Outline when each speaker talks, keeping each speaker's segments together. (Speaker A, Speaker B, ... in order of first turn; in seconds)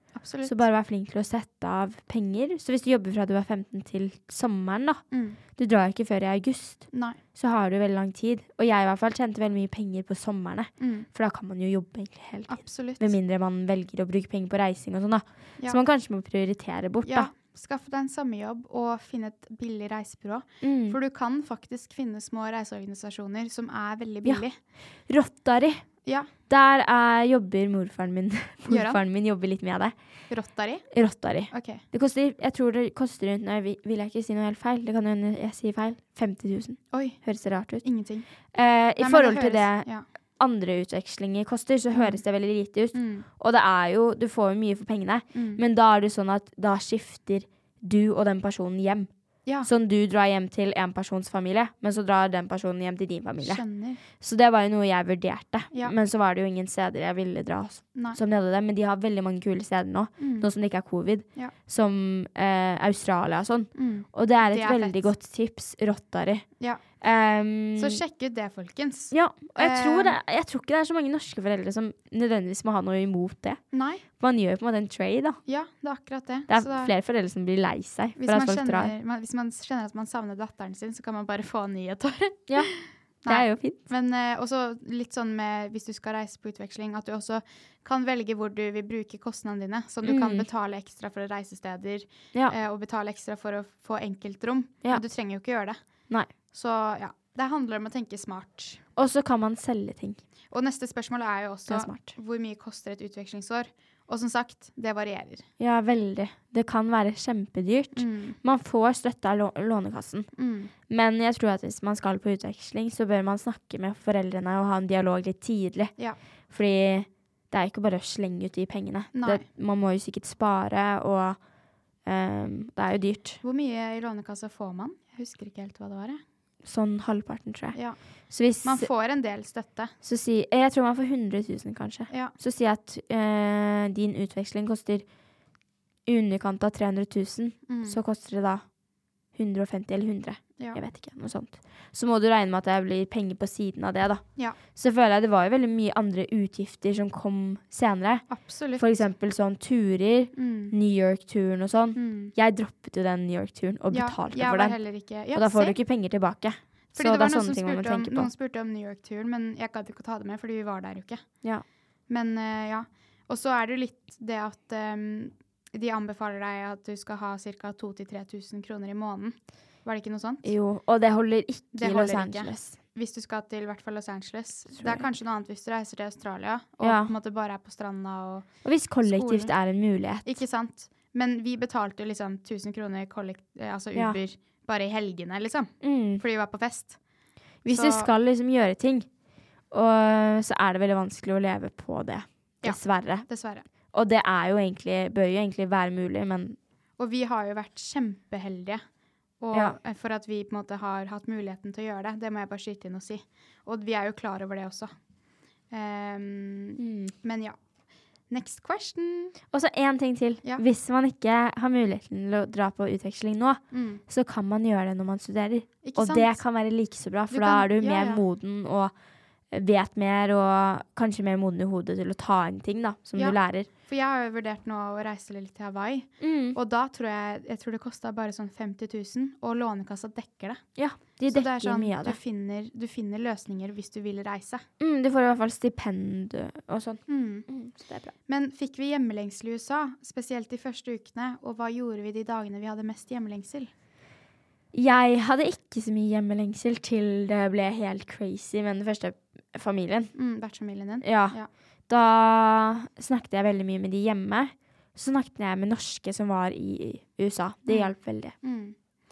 Speaker A: 0.1-0.6, 5.1-5.4, 6.9-7.2, 10.8-11.1, 12.5-13.1, 17.0-24.6, 28.7-29.0, 30.3-30.9, 31.5-31.8, 36.9-37.2, 37.8-38.3, 39.0-40.0, 41.9-42.2, 42.9-43.2, 45.3-45.6, 53.4-54.0, 60.2-60.5, 63.7-65.1, 67.7-70.2, 73.7-74.0, 75.5-76.9, 78.2-95.8, 96.5-98.8, 100.5-105.5, 107.9-108.4, 110.3-110.7, 119.1-119.4, 123.4-126.2, 128.6-129.9, 137.7-138.0, 148.3-149.0, 150.3-150.7, 151.9-152.3, 153.9-155.8, 156.9-161.2, 162.1-170.5, 171.7-179.5, 180.2-187.0, 187.7-188.1, 192.6-193.6, 197.0-198.8, 199.4-204.9, 205.7-207.6, 208.3-209.3, 213.7-214.0, 215.8-216.4, 217.3-218.2, 223.2-230.6, 231.3-234.6, 237.1-237.5, 238.3-243.7, 250.1-251.5, 257.7-258.8
Speaker B: 0.4-5.0, 5.5-17.3, 20.6-21.0, 25.1-25.9, 26.5-29.9, 30.9-37.8, 38.5-39.9, 40.4-49.1, 49.6-53.6, 54.2-66.5, 67.0-68.0, 69.1-73.6, 74.2-75.4, 76.5-78.9, 83.2-83.8, 90.0-90.5, 99.0-100.2, 101.7-102.1, 105.6-110.3, 110.9-115.9, 116.5-121.4, 122.0-123.4, 126.6-127.8, 128.3-128.9, 130.0-135.1, 136.1-138.6, 139.3-144.2, 144.7-154.8, 155.3-158.3, 170.4-172.7, 174.7-175.1, 176.8-177.1, 178.6-180.3, 185.8-186.2, 187.6-189.1, 189.7-193.2, 193.9-196.6, 206.8-207.1, 209.5-218.9, 219.5-223.7, 226.2-226.6, 230.8-232.2, 234.8-238.1, 244.7-250.1, 251.0-251.3, 251.9-258.3